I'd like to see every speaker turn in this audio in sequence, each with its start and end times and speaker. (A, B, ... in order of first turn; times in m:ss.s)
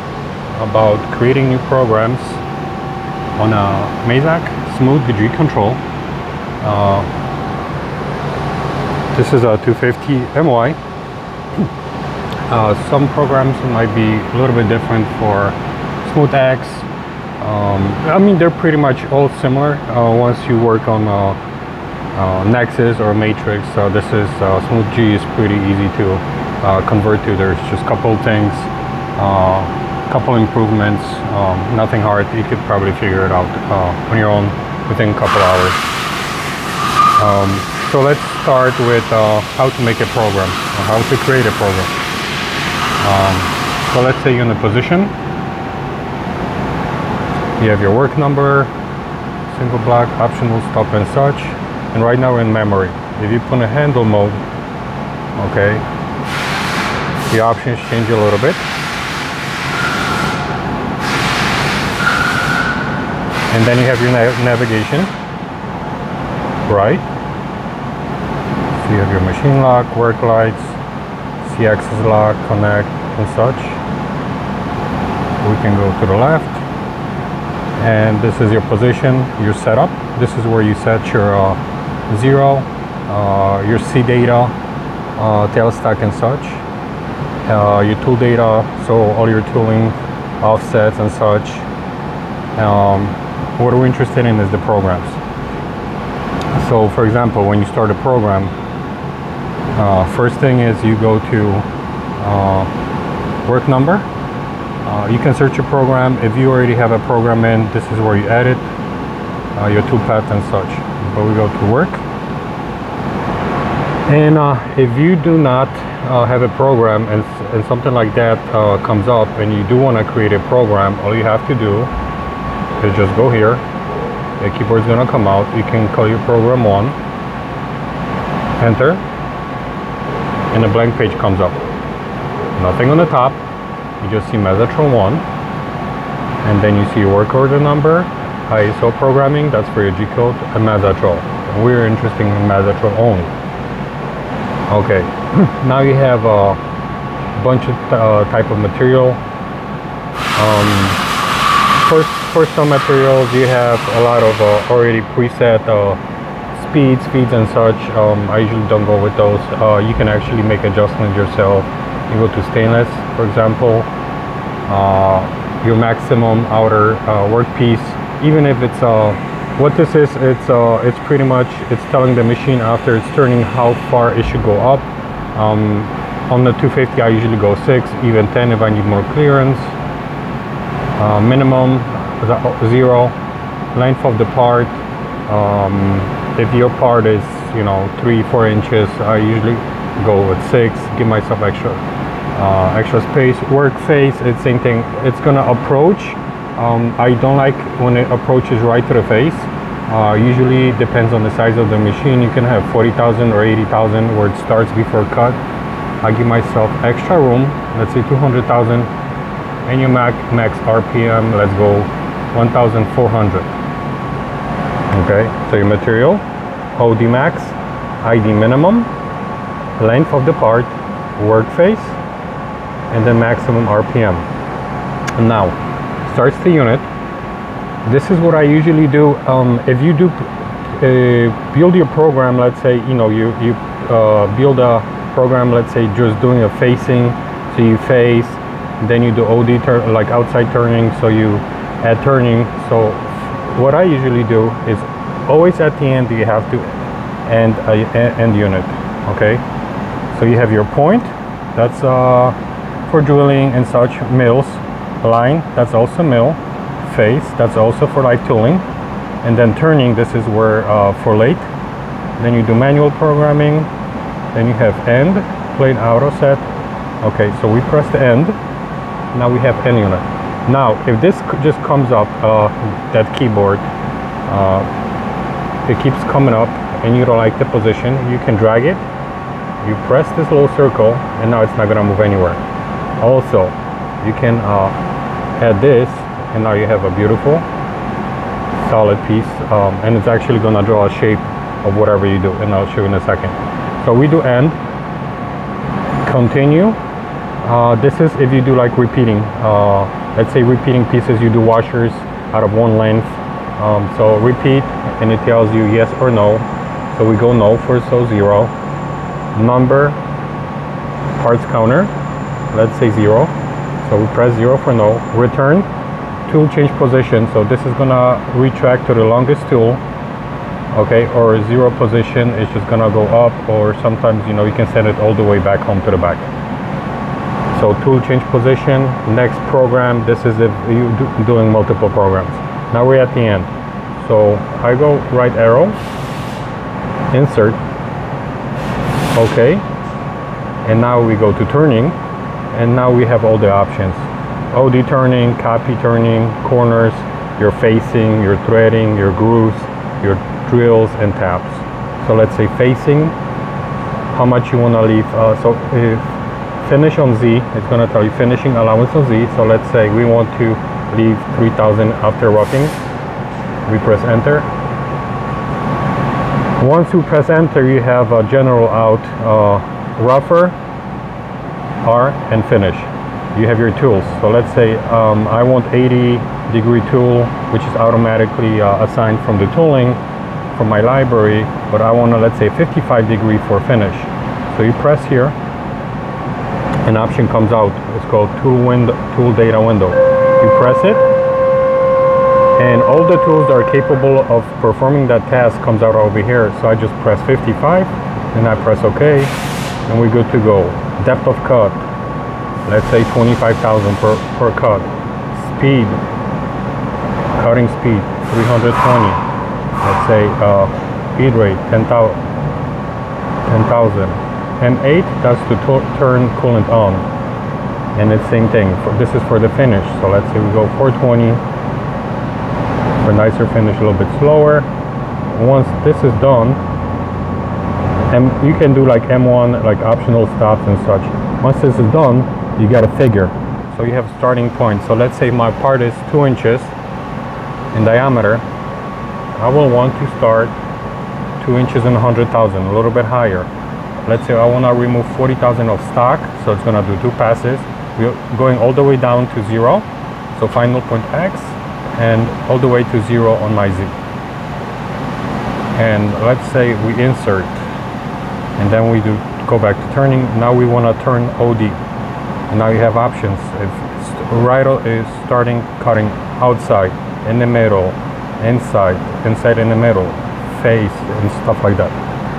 0:00.6-0:02.4 A
0:03.4-0:05.8 A
0:06.6-0:07.1 A
0:09.1-0:10.8 A
0:12.5-0:16.9 A
0:17.4-0:21.4 A
0:22.1-0:35.8 A
0:37.2-0:41.9 A
0:43.0-0:45.1 A
0:47.6-0:48.7 A
0:49.5-0:54.4 A
0:55.4-0:55.8 A
0:57.3-0:58.6 A
1:03.5-1:05.1 A
1:06.7-1:07.0 A
1:08.7-1:10.8 A
1:11.4-1:13.8 A
1:15.4-1:16.6 A
1:17.8-1:24.5 A
1:25.2-1:26.6 A
1:27.4-1:31.7 A
1:32.6-1:35.2 A
1:36.5-1:38.5 A
1:39.8-1:41.7 A
1:42.2-1:42.7 A
1:43.4-1:44.1 A
1:44.8-1:48.6 A
1:49.6-1:52.0 A
1:54.1-2:01.9 A
2:02.8-2:03.6 A
2:04.4-2:07.0 A
2:08.6-2:09.0 A
2:10.5-2:11.6 A
2:12.6-2:13.4 A
2:14.0-2:15.2 A
2:16.4-2:23.3 A
2:24.7-2:26.6 A
2:27.4-2:29.2 A
2:30.4-2:31.0 A
2:31.8-2:36.0 A
2:36.5-2:43.9 A
2:44.7-2:59.7 A
3:01.0-3:03.2 A
3:03.7-3:04.8 A
3:05.3-3:11.8 A
3:12.3-3:25.4 A
3:26.0-3:28.9 A
3:29.6-3:33.5 A
3:34.9-3:36.2 A
3:36.8-3:38.9 A
3:39.8-3:42.0 A
3:42.9-3:44.3 A
3:45.2-3:46.9 A
3:47.8-4:09.4 A
4:10.1-4:12.4 A
4:12.9-4:18.6 A
4:19.2-4:21.5 A
4:22.2-4:23.7 A
4:24.3-4:26.4 A
4:27.0-4:28.4 A
4:29.1-4:33.7 A
4:34.3-4:34.7 A
4:35.6-4:38.8 A
4:39.6-4:42.4 A
4:43.0-4:44.8 A
4:45.4-4:47.4 A
4:48.6-4:54.6 A
4:56.0-4:56.8 A
4:57.4-5:08.5 A
5:09.4-5:10.0 A
5:11.2-5:11.9 A
5:12.5-5:13.3 A
5:13.8-5:15.7 A
5:16.3-5:19.8 A
5:20.7-5:26.3 A
5:27.5-5:35.8 A
5:37.1-5:37.6 A
5:39.1-5:39.6 A
5:40.6-5:42.0 A
5:42.5-5:53.2 A
5:54.1-5:56.0 A
5:56.6-6:02.8 A
6:03.7-6:04.5 A
6:06.6-6:10.6 A
6:11.8-6:20.0 A
6:20.5-6:25.4 A
6:26.8-6:31.0 A
6:32.6-6:39.3 A
6:39.9-6:41.8 A
6:42.7-6:46.0 A
6:47.4-6:49.2 A
6:49.8-6:52.2 A
6:53.5-6:57.1 A
6:58.0-7:01.4 A
7:03.0-7:04.7 A
7:05.3-7:06.6 A
7:08.1-7:16.7 A
7:17.7-7:18.4 A
7:19.4-7:20.5 A
7:21.4-7:23.5 A
7:24.0-7:33.9 A
7:35.8-7:37.6 A
7:38.6-7:41.8 A
7:42.5-7:52.0 A